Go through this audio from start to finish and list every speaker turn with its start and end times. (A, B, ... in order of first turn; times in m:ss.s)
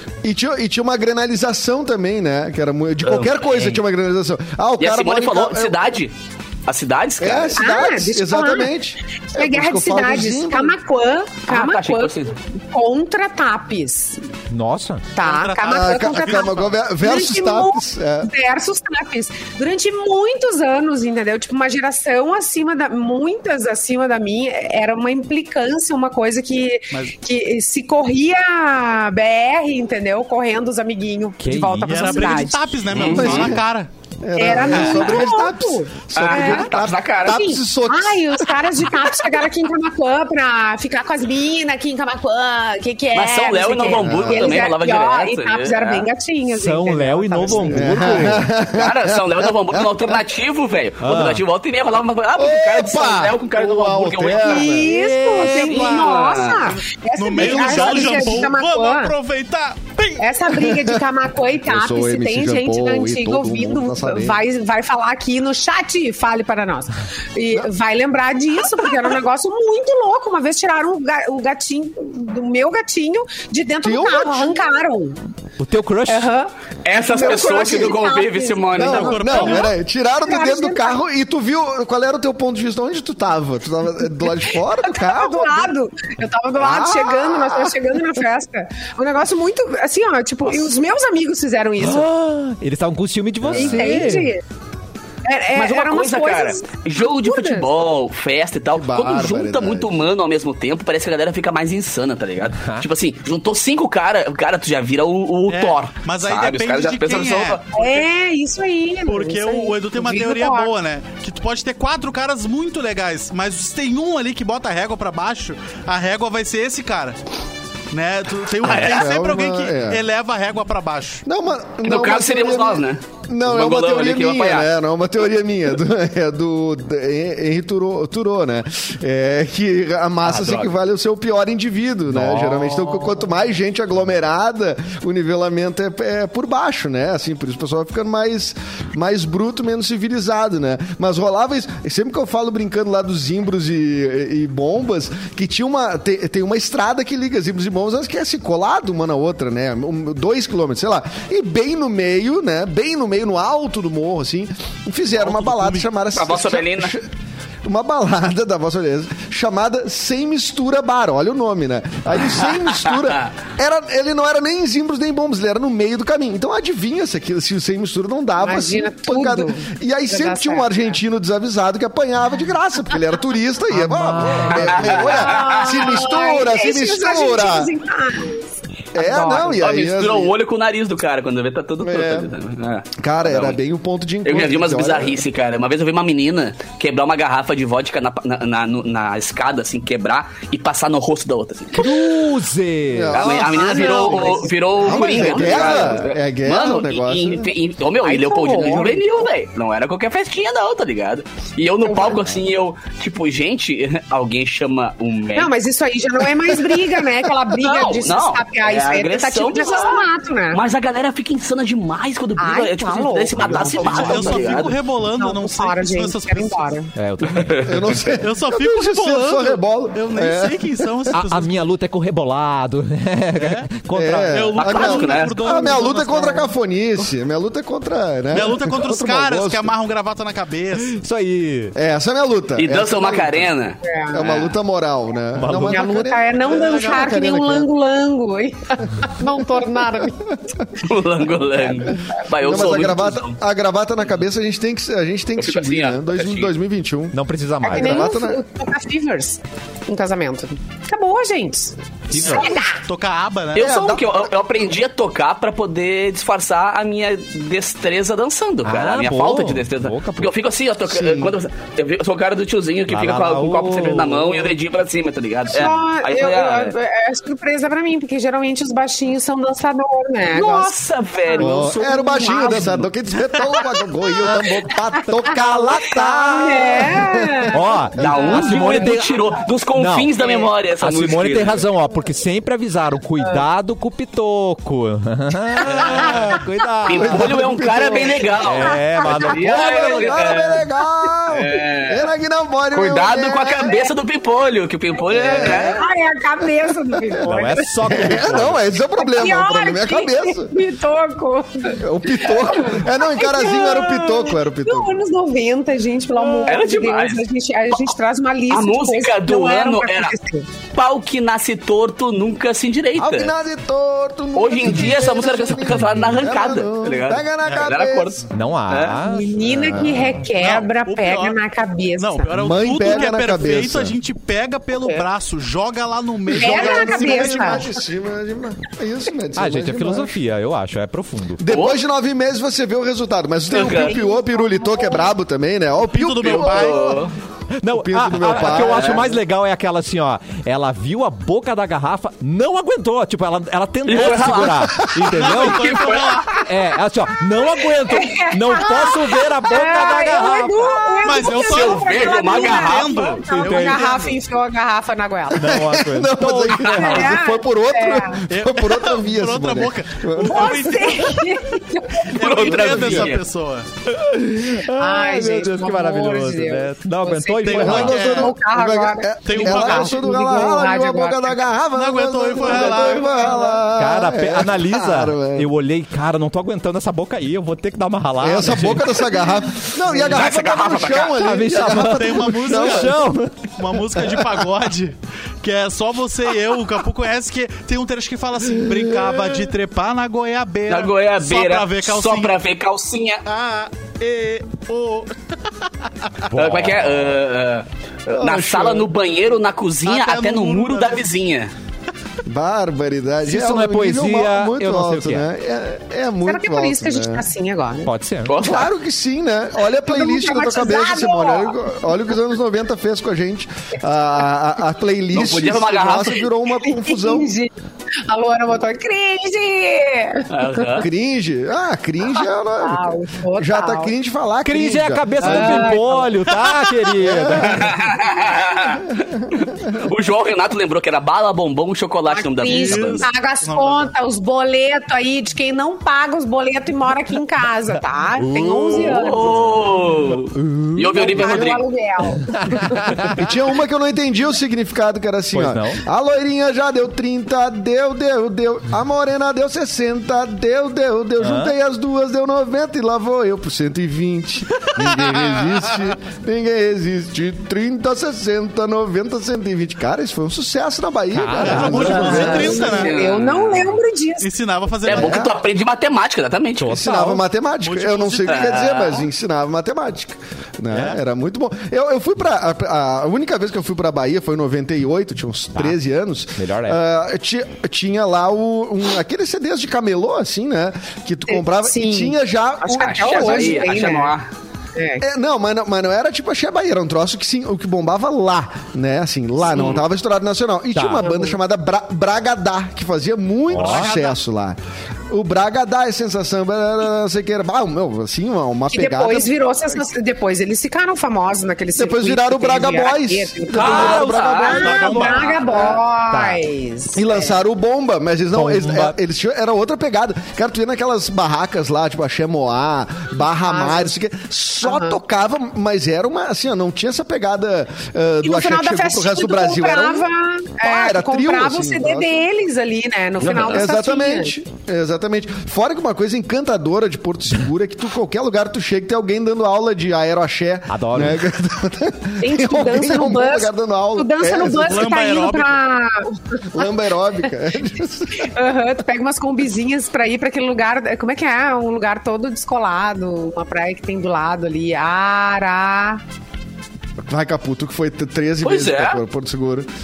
0:00.2-0:05.8 A
0:03.0-0:03.8 B
0:04.8-0:06.1 B
0:06.7-0:07.7 B
0:07.2-0:10.8 A
0:07.6-0:08.7 C
0:09.3-0:14.2 C
0:11.5-0:12.3 B
0:14.5-0:15.1 D
0:15.1-0:32.8 C
0:15.2-0:16.8 E
0:15.7-0:18.3 A
0:31.4-0:32.5 D
0:31.9-0:33.9 E
0:32.9-0:33.6 B
0:33.0-0:33.6 A
0:34.2-0:38.6 A
0:34.4-0:36.7 C
0:34.6-0:35.2 E
0:36.1-0:37.5 B
0:37.2-0:48.4 C
0:43.1-0:46.1 B
0:43.9-0:44.6 A
0:46.5-0:48.5 D
0:47.7-0:50.2 A
0:48.7-0:54.8 B
0:51.0-0:51.4 D
0:52.4-0:54.9 A
0:54.3-0:59.1 C
0:54.8-0:56.3 E
0:55.3-0:56.8 B
0:57.2-1:00.3 E
0:57.4-0:58.0 A
1:00.2-1:15.2 C
1:00.5-1:01.0 A
1:01.6-1:04.4 A
1:13.8-1:14.6 A
1:15.6-1:16.3 D
1:16.1-1:21.0 C
1:16.8-1:19.5 B
1:18.8-1:25.7 A
1:18.8-1:19.7 E
1:24.8-1:32.1 C
1:26.6-1:27.8 A
1:31.8-1:34.3 D
1:33.4-1:33.9 A
1:33.5-1:34.4 C
1:35.2-1:37.7 C
1:35.6-1:48.0 B
1:38.8-1:39.9 A
1:42.6-1:42.9 D
1:45.5-1:47.6 E
1:47.7-1:50.7 C
1:49.1-1:57.2 E
1:57.9-2:01.2 E
1:58.6-1:59.1 B
1:58.6-2:00.1 A
2:01.2-2:37.1 A
2:01.8-2:04.7 B
2:10.2-2:10.7 B
2:12.1-2:13.2 D
2:35.2-2:35.8 E
2:36.1-2:36.9 B
2:37.6-2:57.7 A
2:42.9-2:43.2 B
2:48.4-2:51.0 C
2:53.7-2:55.0 D
2:54.5-2:55.8 B
2:55.0-2:59.6 C
2:59.0-3:00.4 A
2:59.5-3:03.6 B
3:01.8-3:02.3 A
3:03.0-3:05.2 A
3:04.2-3:12.0 B
3:11.7-3:13.3 D
3:12.9-3:17.5 A
3:13.1-3:25.5 B
3:13.5-3:15.7 C
3:18.0-3:19.0 C
3:21.8-3:22.3 C
3:25.4-3:30.6 C
3:27.5-3:34.8 B
3:32.4-3:36.9 C
3:33.8-3:36.7 E
3:37.0-3:38.0 D
3:37.3-3:38.2 B
3:37.6-3:41.1 A
3:38.2-3:41.6 E
3:41.1-3:44.5 D
3:43.4-3:43.7 E
3:43.9-3:49.7 A
3:44.2-3:46.5 E
3:44.6-3:45.4 B
3:48.3-3:51.0 E
3:50.8-3:51.8 D
3:51.8-3:53.5 A
3:52.6-3:54.5 B
3:53.8-3:54.3 C
3:54.1-3:57.7 A
3:55.4-3:55.9 D
3:55.6-4:00.4 C
3:56.4-3:57.1 E
3:59.2-3:59.8 A
4:00.8-4:03.4 B
4:01.6-4:02.2 C
4:02.4-4:08.4 A
4:05.4-4:06.5 B
4:07.1-4:08.1 D
4:07.6-4:12.8 C
4:12.1-4:12.5 D
4:12.2-4:13.7 E
4:13.5-4:26.7 B
4:13.6-4:14.3 A
4:18.6-4:20.3 D
4:20.9-4:21.4 A
4:22.9-4:24.5 D
4:25.5-4:32.7 C
4:30.3-4:32.9 B
4:31.4-4:38.4 A
4:33.5-4:39.0 C
4:34.2-4:36.9 D
4:37.5-4:39.1 D
4:38.0-4:41.6 B
4:39.8-4:40.1 D
4:40.2-4:40.5 C
4:40.8-4:47.4 D
4:45.6-4:46.2 C
4:46.9-4:50.7 B
4:46.9-4:48.3 A
4:48.3-4:50.4 D
4:49.3-4:53.8 A
4:51.3-4:52.1 B
4:52.7-4:55.8 B
4:55.1-4:55.9 A
4:55.1-4:58.4 C
4:56.9-4:57.3 A
4:57.2-4:58.6 D
4:57.8-5:00.5 A
4:59.0-5:10.5 C
5:01.7-5:05.0 A
5:06.4-5:07.3 B
5:08.5-5:10.1 B
5:10.7-5:13.3 B
5:13.0-5:18.2 A
5:14.4-5:19.0 B
5:18.3-5:20.2 D
5:19.0-5:22.3 C
5:19.6-5:20.2 A
5:20.4-5:21.4 E
5:22.0-5:27.7 E
5:22.4-5:24.0 A
5:24.8-5:25.1 C
5:26.3-5:30.2 A
5:26.3-5:27.6 C
5:29.4-5:31.4 D
5:31.4-5:37.1 A
5:31.5-5:31.8 B
5:33.5-5:34.0 B
5:33.6-5:35.1 C
5:35.8-5:37.0 E
5:36.2-5:37.1 B
5:37.6-5:50.8 D
5:37.7-5:39.1 A
5:38.4-5:39.0 B
5:43.9-5:46.3 B
5:43.9-5:44.5 E
5:44.8-5:45.1 A
5:45.1-5:46.4 E
5:47.8-5:55.6 C
5:51.0-5:54.2 E
5:51.2-5:53.2 B
5:53.3-5:53.8 D
5:55.4-5:57.1 D
5:55.4-6:00.9 A
5:56.6-5:56.9 B
5:56.6-5:58.2 C
5:58.3-6:01.3 E
6:00.2-6:02.2 C
6:02.1-6:03.7 E
6:02.1-6:03.2 B
6:03.9-6:08.0 D
6:04.7-6:11.4 C
6:07.4-6:08.4 E
6:07.5-6:15.5 A
6:09.3-6:10.0 E
6:11.8-6:13.6 E
6:12.4-6:12.9 B
6:13.8-6:19.1 D
6:18.2-6:24.4 A
6:20.0-6:21.2 B
6:21.2-6:23.4 D
6:21.5-6:23.0 E
6:23.6-6:32.4 E
6:28.7-6:29.4 A
6:30.7-6:33.2 B
6:33.3-6:36.1 E
6:36.3-6:37.2 D
6:36.4-6:41.5 B
6:38.1-6:38.9 A
6:39.8-6:41.1 E
6:42.2-6:47.3 A
6:43.2-6:45.3 D
6:46.3-6:47.9 C
6:47.8-6:48.4 D
6:48.3-6:48.7 B
6:48.4-6:57.3 A
6:49.8-6:51.6 C
6:55.1-6:56.3 B
6:56.6-6:57.5 C
6:58.1-7:00.8 C
7:00.3-7:00.9 B
7:00.8-7:05.8 A
7:02.1-7:03.9 C
7:04.4-7:07.8 D
7:05.2-7:06.1 C
7:07.0-7:07.8 A
7:07.4-7:13.1 B
7:12.1-7:19.4 C
7:12.4-7:13.9 E
7:18.2-7:18.9 D
7:18.8-7:21.6 B
7:20.4-7:21.6 A
7:20.9-7:22.9 C
7:22.3-7:23.3 D
7:23.1-7:42.7 A
7:25.3-7:25.8 D
7:31.2-7:31.5 D
7:34.8-7:35.7 E
7:41.1-7:42.5 D
7:41.4-7:42.9 E
7:41.6-7:44.3 C
7:41.9-7:43.8 B
7:44.2-7:45.2 E
7:44.8-7:46.8 B
7:44.9-7:45.4 A
7:46.6-7:47.2 D
7:46.7-8:03.9 A
7:47.6-7:48.7 E
7:48.2-7:49.0 B
7:50.7-7:51.0 E
7:56.4-7:56.8 D
8:01.3-8:04.1 C
8:02.7-8:04.3 B
8:04.8-8:05.0 C
8:05.0-8:14.6 A
8:09.5-8:09.8 B
8:10.7-8:11.0 D
8:11.0-8:11.4 C
8:13.5-8:13.9 D
8:13.5-8:14.2 E
8:15.1-8:19.3 A
8:18.7-8:27.4 C
8:21.8-8:25.7 A
8:23.5-8:25.4 B
8:23.6-8:24.3 D
8:24.5-8:25.8 E
8:26.1-8:26.4 D
8:26.9-8:40.1 A
8:28.3-8:29.0 D
8:33.4-8:33.9 C
8:34.6-8:35.0 C
8:38.2-8:44.4 C
8:40.6-8:42.2 A
8:43.2-8:43.6 B
8:43.2-8:54.9 A
8:50.7-8:51.2 D
8:52.2-8:56.7 C
8:54.6-8:55.6 E
8:56.5-8:58.3 A
8:58.2-9:06.0 C
9:07.1-9:09.7 A
9:08.4-9:09.0 B